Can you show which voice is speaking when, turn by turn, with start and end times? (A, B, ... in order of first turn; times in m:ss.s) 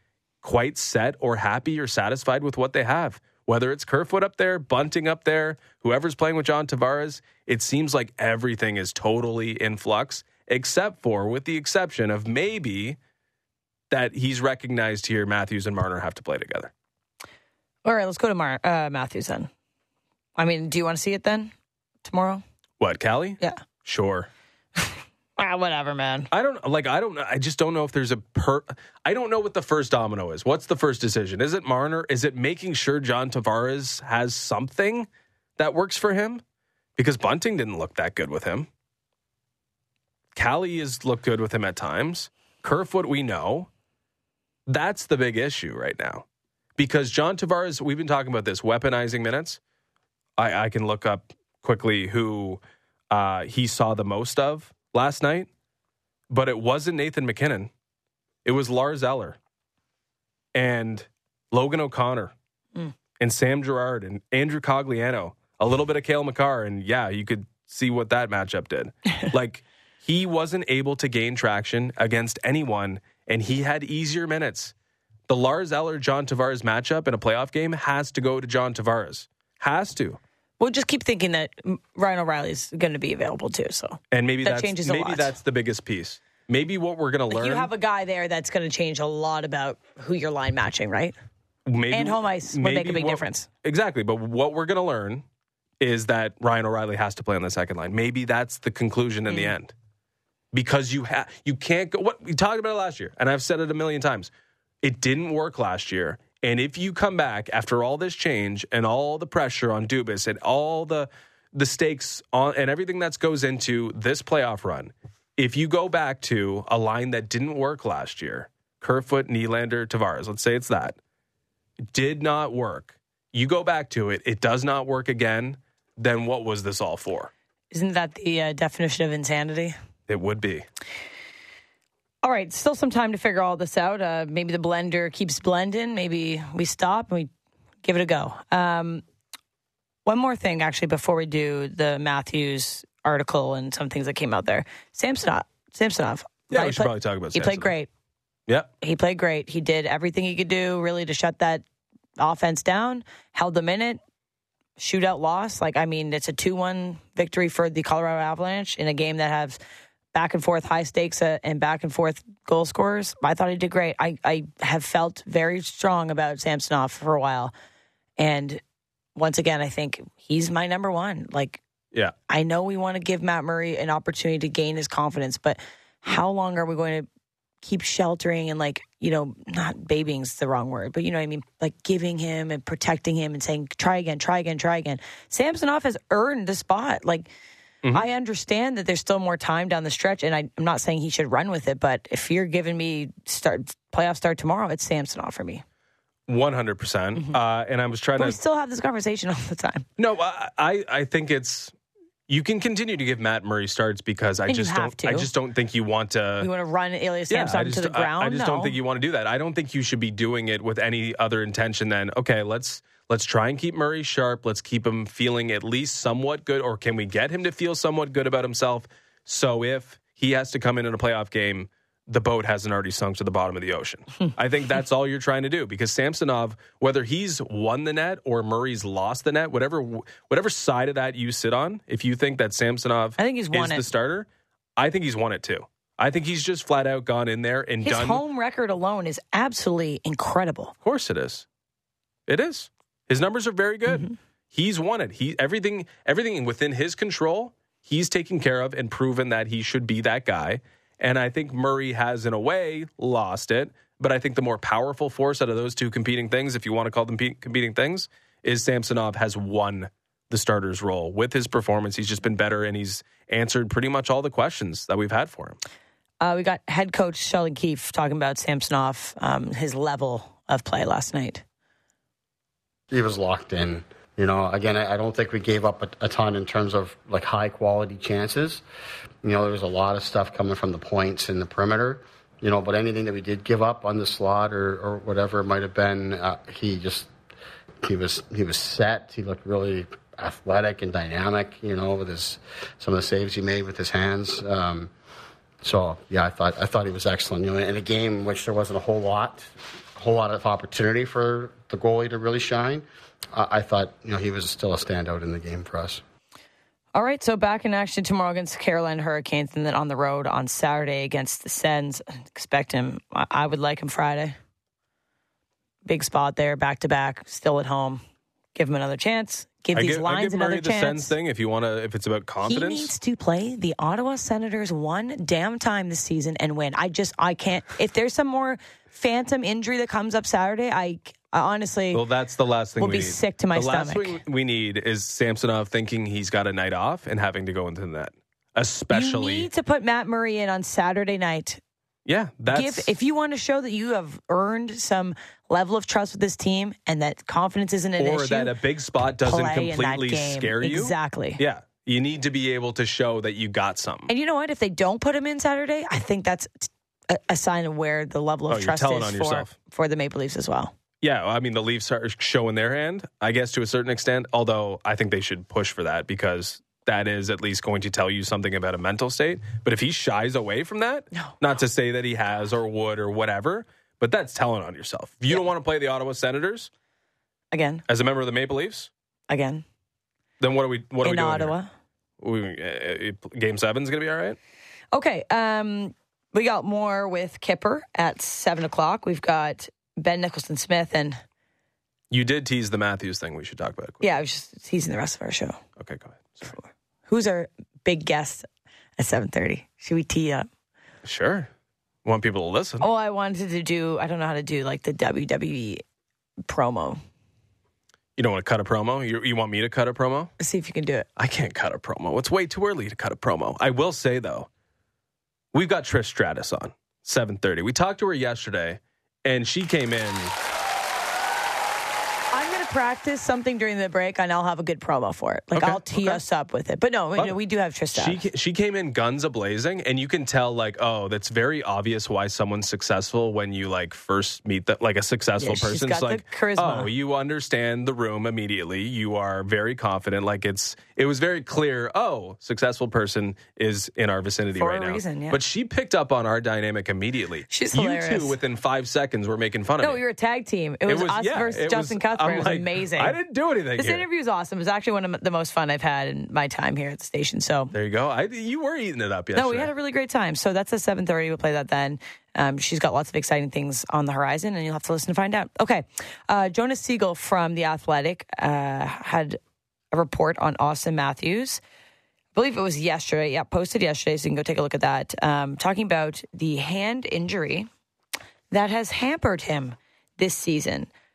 0:00.4-0:13.0 A
0:13.9-0:16.7 A
0:17.8-0:19.5 B
0:20.4-0:21.5 B
0:22.0-0:22.4 B
0:22.8-0:24.3 A
0:24.8-0:26.3 B
0:26.3-0:36.4 A
0:37.0-0:38.7 A
0:40.3-0:43.7 A
0:44.7-0:46.2 A
0:46.8-0:49.6 A
0:50.4-0:55.5 A
0:56.3-0:57.7 A
0:58.4-0:59.4 A
1:00.5-1:02.3 A
1:03.2-1:14.7 A
1:15.3-1:20.2 A
1:20.6-1:25.3 B
1:24.1-1:27.7 A
1:27.3-1:31.1 B
1:31.6-1:35.2 A
1:31.9-1:33.5 B
1:35.8-1:39.7 A
1:40.5-1:44.3 A
1:44.8-2:01.0 A
2:01.9-2:07.3 A
2:07.7-2:09.7 B
2:10.1-2:10.6 A
2:12.2-2:17.3 B
2:17.8-2:19.0 B
2:20.0-2:27.9 B
2:26.5-2:27.7 A
2:28.8-2:31.6 B
2:32.2-2:34.0 B
2:34.8-2:39.6 B
2:40.1-2:47.5 B
2:48.2-2:48.6 B
2:49.2-2:51.6 B
2:52.3-2:57.1 B
2:57.6-3:07.3 B
3:07.9-3:15.6 B
3:16.3-3:18.4 A
3:18.2-3:19.8 B
3:20.0-3:21.7 A
3:22.3-3:26.5 A
3:24.5-3:25.3 B
3:26.4-3:28.8 B
3:27.3-3:58.2 A
3:53.2-3:53.9 B
3:57.8-4:00.7 B
4:00.8-4:01.4 A
4:02.3-4:25.6 A
4:26.2-4:31.4 B
4:32.9-4:38.6 C
4:39.2-4:47.1 C
4:47.8-4:54.9 C
4:55.6-4:59.4 C
5:00.0-5:06.0 C
5:06.9-5:14.4 B
5:15.8-5:18.0 B
5:18.5-5:21.1 B
5:19.7-5:22.9 A
5:22.4-5:32.0 B
5:31.9-5:39.5 A
5:32.8-5:34.2 B
5:38.9-5:41.6 B
5:42.0-5:42.9 A
5:42.5-5:48.5 B
5:48.0-5:54.1 A
5:49.2-5:51.4 B
5:54.1-6:00.7 B
5:58.5-5:59.5 A
6:01.0-6:16.7 A
6:17.5-6:17.8 B
6:17.9-6:18.9 A
6:19.3-6:19.6 B
6:20.4-6:21.5 A
6:21.0-6:21.7 B
6:22.2-6:24.4 A
6:24.9-6:31.2 B
6:32.1-6:34.0 A
6:34.0-6:35.6 B
6:35.8-6:36.5 A
6:36.5-6:38.4 B
6:39.0-6:40.5 B
6:41.0-6:41.5 A
6:42.0-6:42.8 A
6:42.8-6:45.8 B
6:46.4-6:47.0 B
6:48.2-6:50.3 A
6:50.4-6:51.1 B
6:51.2-6:54.5 A
6:55.5-7:00.4 A
7:02.3-7:08.2 B
7:05.5-7:06.2 A
7:07.9-7:30.0 A
7:15.4-7:16.9 B
7:24.5-7:25.4 B
7:27.5-7:28.4 B
7:29.8-7:33.2 B
7:30.9-7:34.0 A
7:33.8-7:37.7 B
7:37.7-7:39.7 A
7:39.3-7:49.4 B
7:49.9-7:51.6 B
7:52.3-7:57.7 B
7:58.5-8:00.9 B